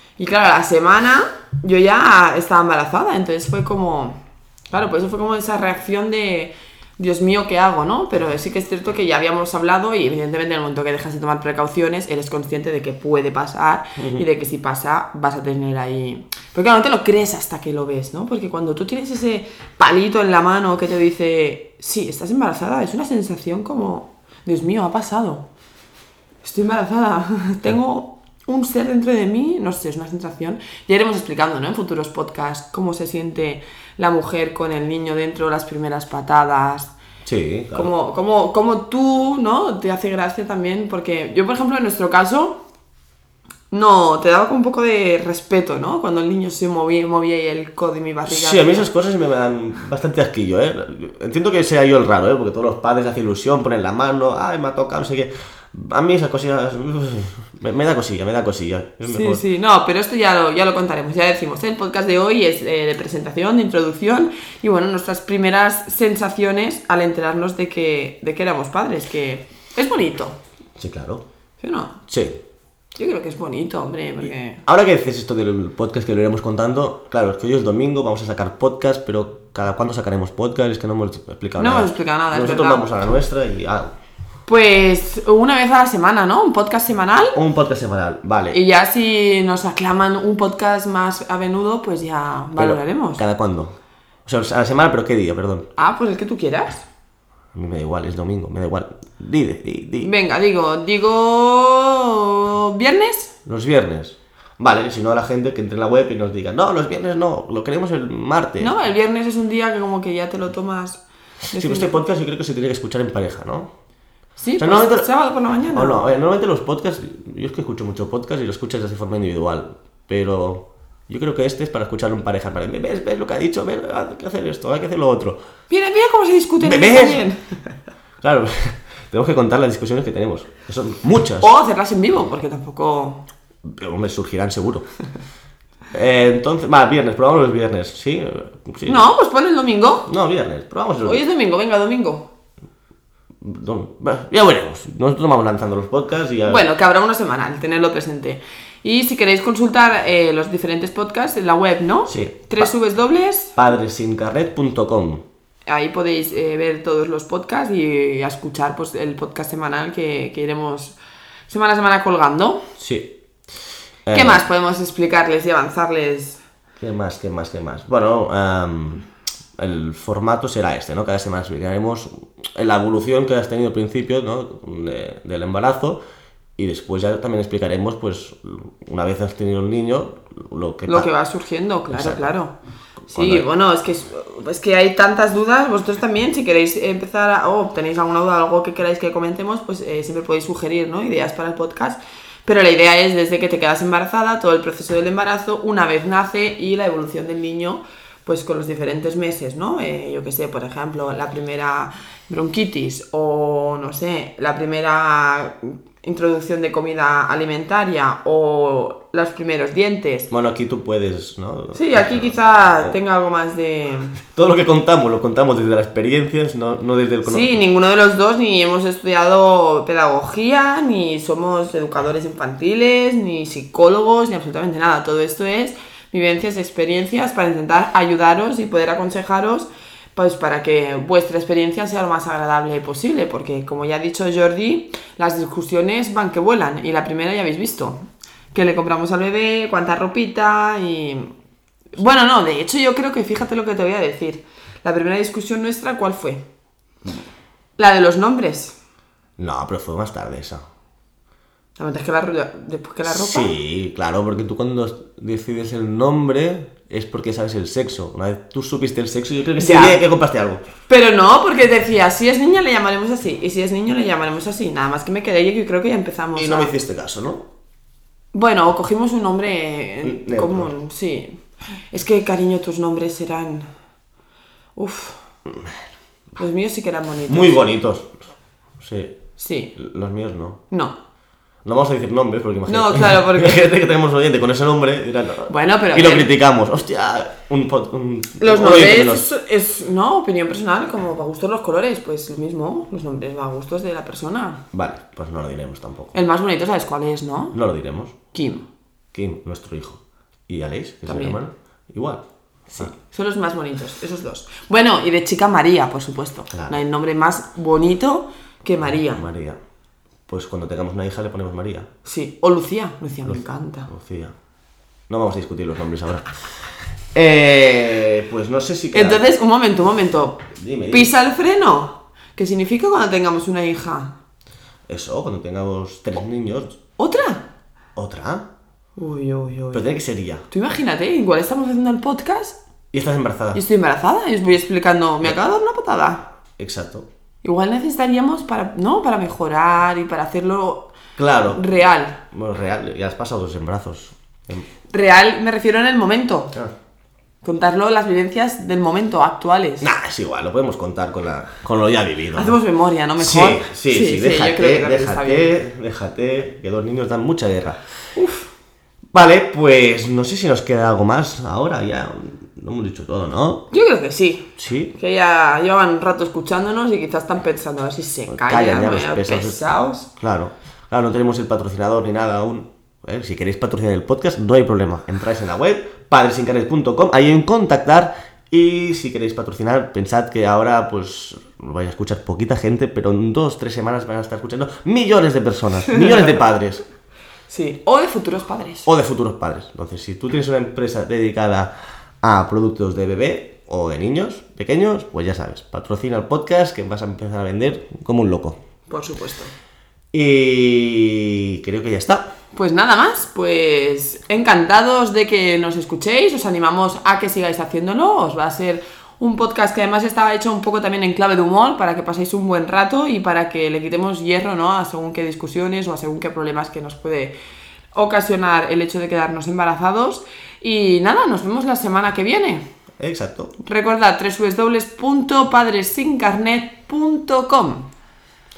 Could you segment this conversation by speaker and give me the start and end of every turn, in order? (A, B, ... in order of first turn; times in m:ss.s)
0:00.2-0:04.2 A
0:04.7-0:25.5 A
0:14.0-0:14.2 B
0:26.4-0:36.9 A
0:37.2-0:37.9 B
0:37.7-0:42.6 A
0:43.7-0:48.9 A
0:48.3-0:59.4 B
0:59.0-1:10.4 A
1:10.8-1:11.2 B
1:11.6-1:12.0 A
1:12.1-1:12.4 B
1:13.0-1:14.6 A
1:14.7-1:23.9 B
1:21.6-1:22.8 A
1:24.5-1:27.4 A
1:27.4-1:28.6 B
1:28.5-1:33.2 A
1:32.6-1:35.7 B
1:35.8-1:36.8 A
1:37.5-1:40.1 B
1:40.0-1:43.3 A
1:43.5-1:48.8 B
1:48.6-1:51.0 A
1:51.5-1:52.0 A
1:51.5-1:53.7 B
1:54.4-1:56.1 A
1:54.6-1:55.1 B
1:55.7-2:05.4 B
2:05.7-2:07.5 A
2:06.6-2:07.2 B
2:08.2-2:11.5 B
2:11.4-2:13.3 A
2:13.6-2:14.9 B
2:15.9-2:19.0 B
2:18.8-2:20.1 A
2:20.1-2:21.2 B
2:21.0-2:22.3 A
2:23.4-2:26.6 B
2:26.5-2:33.6 A
2:32.1-2:32.7 B
2:33.6-2:35.2 B
2:35.7-2:41.0 A
2:41.5-2:42.6 A
2:42.8-2:43.1 B
2:44.1-2:44.4 B
2:44.1-2:46.4 A
2:46.8-2:49.1 B
2:49.6-2:56.0 B
2:56.6-3:01.1 B
3:00.9-3:02.6 A
3:01.9-3:02.3 B
3:03.1-3:03.5 B
3:03.1-3:30.3 A
3:30.3-3:33.0 B
3:31.7-3:34.2 A
3:34.3-3:37.6 B
3:37.2-4:01.3 A
4:02.0-4:06.4 A
4:07.8-4:08.8 A
4:09.4-4:10.6 B
4:11.8-4:13.6 A
4:13.0-4:20.6 B
4:19.6-4:20.0 A
4:20.9-4:26.7 A
4:26.3-4:27.5 B
4:28.3-4:31.4 A
4:30.0-4:30.7 B
4:31.9-4:33.7 A
4:34.8-4:35.2 A
4:36.4-4:37.6 A
4:37.3-4:38.1 B
4:38.8-4:39.2 B
4:39.4-4:39.8 A
4:39.8-4:40.6 B
4:41.6-4:49.3 B
4:42.7-4:43.6 A
4:45.5-4:46.3 A
4:48.4-4:54.6 A
4:54.7-4:56.1 B
4:56.1-4:57.6 A
4:57.5-4:58.2 B
4:58.3-4:58.6 A
4:59.1-5:02.2 B
5:01.1-5:01.4 A
5:02.7-5:09.2 A
5:06.5-5:06.8 B
5:08.8-5:09.6 B
5:10.3-5:11.9 B
5:12.0-5:13.9 A
5:13.2-5:14.3 B
5:15.1-5:16.3 B
5:17.1-5:19.2 B
5:18.9-5:24.1 A
5:20.6-5:21.1 B
5:24.9-5:26.8 B
5:27.0-5:27.4 A
5:28.0-5:28.5 B
5:29.0-5:29.9 A
5:29.7-5:30.4 B
5:30.5-5:32.6 A
5:32.9-5:33.6 B
5:33.5-5:36.2 A
5:36.6-5:37.1 B
5:37.4-5:40.9 A
5:41.2-5:41.6 B
5:41.5-5:42.2 A
5:42.2-5:44.7 B
5:44.9-5:46.5 A
5:47.4-5:49.9 A
5:49.8-5:52.6 B
5:52.4-5:55.5 A
5:53.2-5:57.8 B
5:58.2-5:58.5 A
5:59.1-6:03.6 B
6:03.7-6:10.1 A
6:04.6-6:04.9 B
6:08.3-6:09.6 B
6:10.2-6:26.8 B
6:25.9-6:26.4 A
6:27.5-6:28.9 A
6:28.9-6:38.6 B
6:38.9-6:39.5 A
6:40.1-6:42.3 B
6:42.6-6:57.4 A
6:58.0-7:02.6 A
7:03.0-7:03.5 B
7:03.6-7:07.9 A